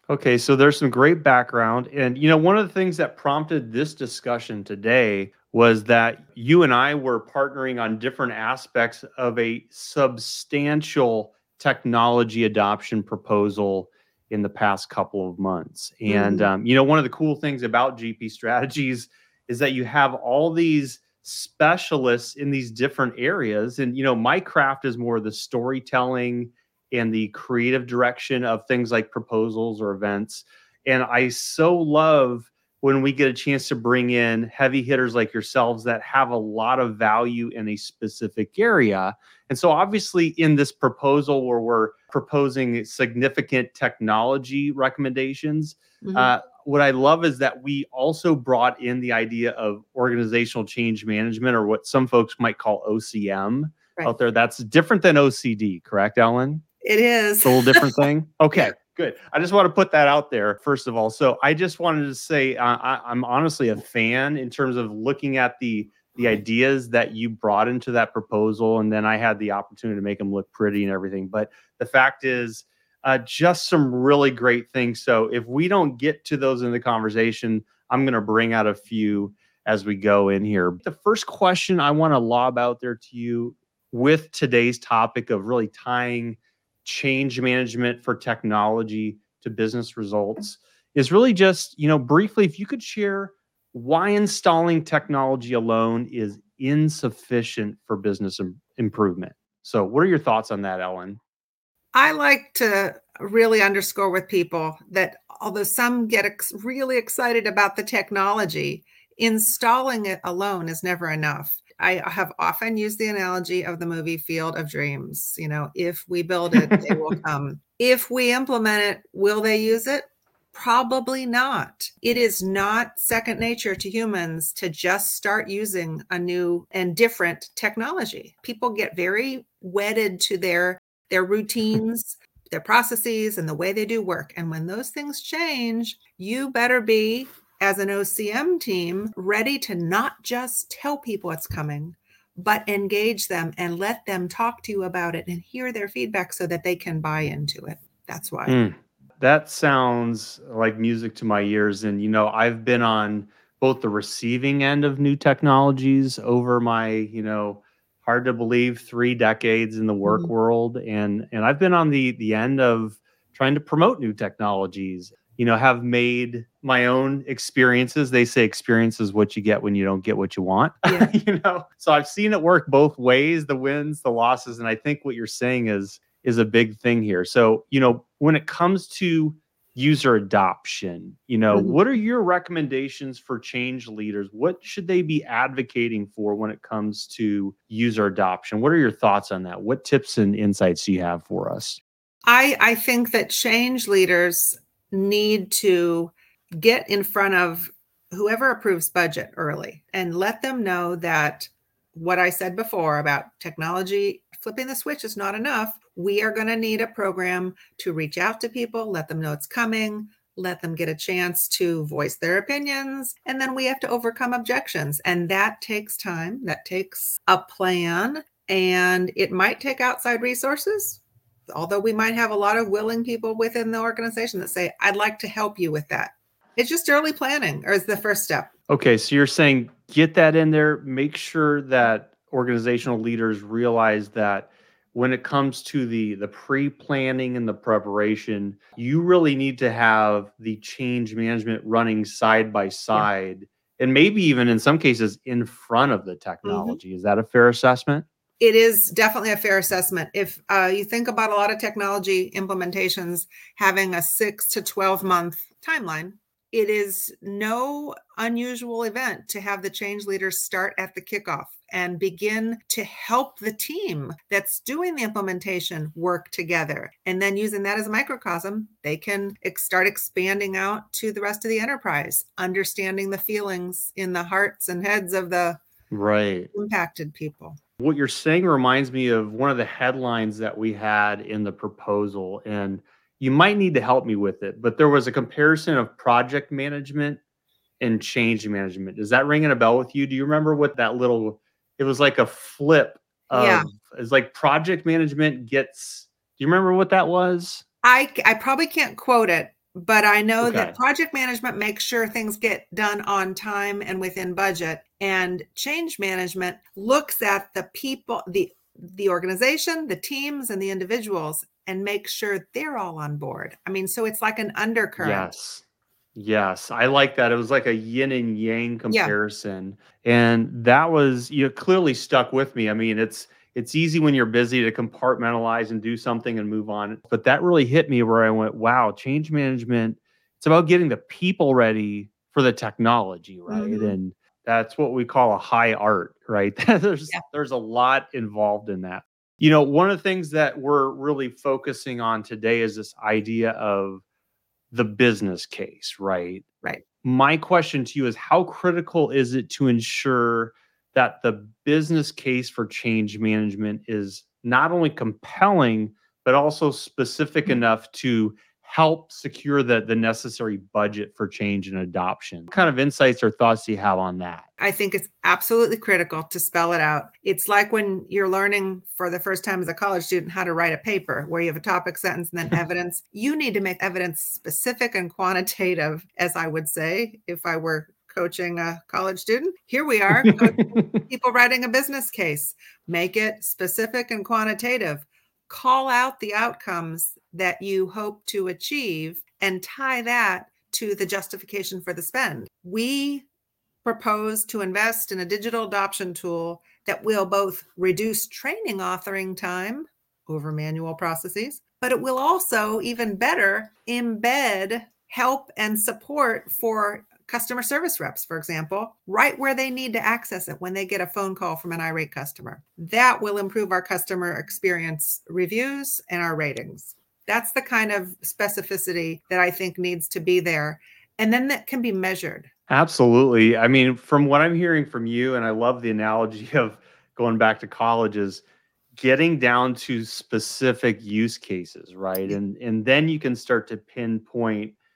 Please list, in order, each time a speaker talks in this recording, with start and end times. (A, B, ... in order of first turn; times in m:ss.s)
0:00.1-0:56.6 A
0:16.0-0:16.5 B
0:46.0-0:46.3 B
0:56.8-0:58.1 B
0:57.4-1:41.2 A
1:41.9-2:28.6 B
2:28.4-3:11.8 A
2:40.0-2:40.3 B
2:50.8-2:51.1 B
3:01.5-3:01.8 B
3:12.2-3:48.5 B
3:48.7-4:08.0 A
4:06.4-4:06.8 B
4:08.4-4:35.6 B
4:35.9-4:36.5 A
4:36.5-4:37.6 B
4:37.8-4:47.2 A
4:47.8-4:57.6 A
4:53.3-4:53.6 B
4:57.8-5:15.3 B
5:00.4-5:00.8 A
5:15.0-5:15.6 A
5:16.2-5:44.0 A
5:18.9-5:19.2 B
5:33.5-5:34.0 B
5:44.7-5:46.4 A
5:47.0-6:04.4 A
6:04.6-6:33.2 B
6:20.2-6:21.0 A
6:33.8-7:02.5 B
7:02.7-7:08.4 A
7:09.0-7:14.7 A